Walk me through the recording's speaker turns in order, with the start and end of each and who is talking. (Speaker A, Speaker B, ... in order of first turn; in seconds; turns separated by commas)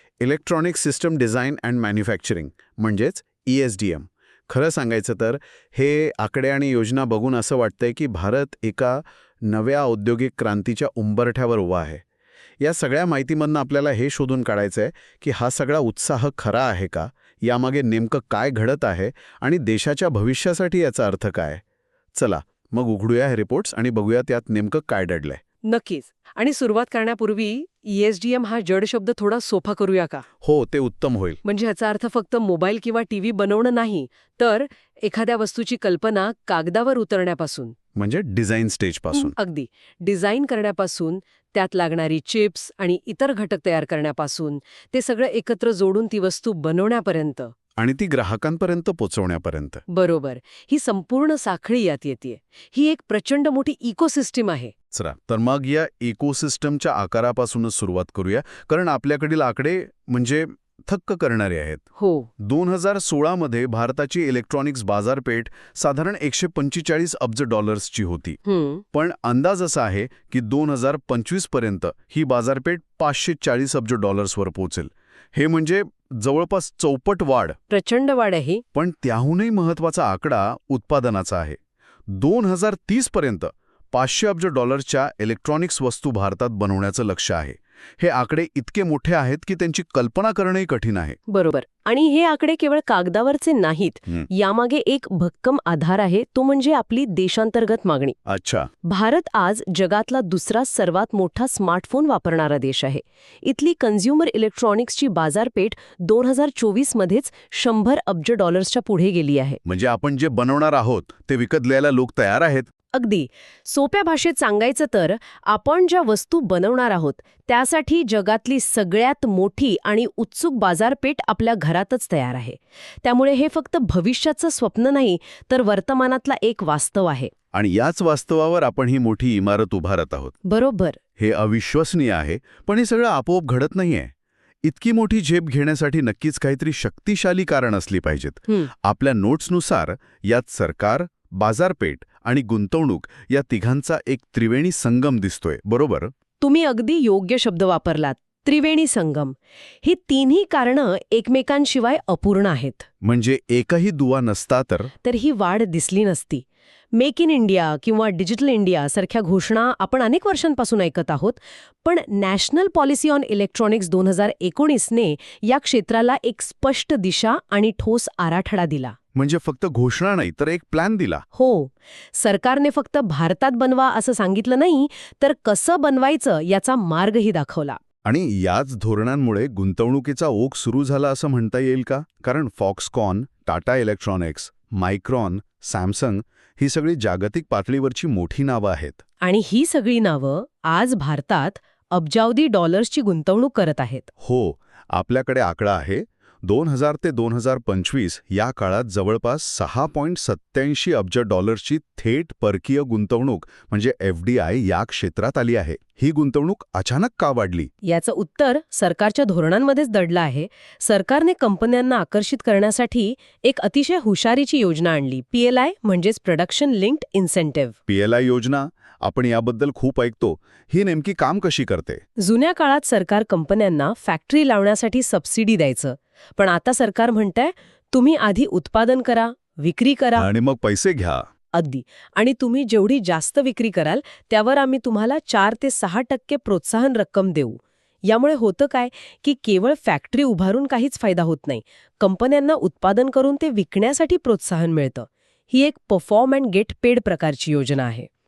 Speaker A: 0.2-12.0, Speaker A: 12.6-21.6, Speaker A: 22.1-25.4, Speaker B: 25.6-30.2, Speaker A: 30.4-31.4, Speaker B: 31.4-37.7, Speaker A: 38.0-39.3, Speaker B: 39.1-47.5, Speaker A: 47.8-49.8, Speaker B: 49.9-54.7, Speaker A: 54.9-61.8, Speaker B: 62.0-62.3, Speaker A: 62.4-68.4, Speaker B: 68.5-68.8, Speaker A: 68.9-77.6, Speaker B: 77.7-78.6, Speaker A: 78.7-91.2, Speaker B: 91.3-98.2, Speaker A: 98.2-98.7, Speaker B: 98.8-109.6, Speaker A: 109.7-112.7, Speaker B: 112.9-127.3, Speaker A: 127.5-130.3, Speaker B: 130.4-131.0, Speaker A: 131.2-134.1, Speaker A: 134.6-146.1, Speaker B: 146.4-152.9, Speaker A: 153.0-154.9, Speaker B: 155.0-168.9, Speaker A: 169.1-171.2, Speaker B: 171.3-177.8, Speaker A: 178.0-189.0, Speaker B: 189.2-194.1, Speaker A: 194.2-207.7, Speaker B: 207.8-217.7, Speaker A: 217.9-222.0, Speaker B: 222.2-230.3, Speaker A: 230.2-231.2, Speaker B: 231.5-248.1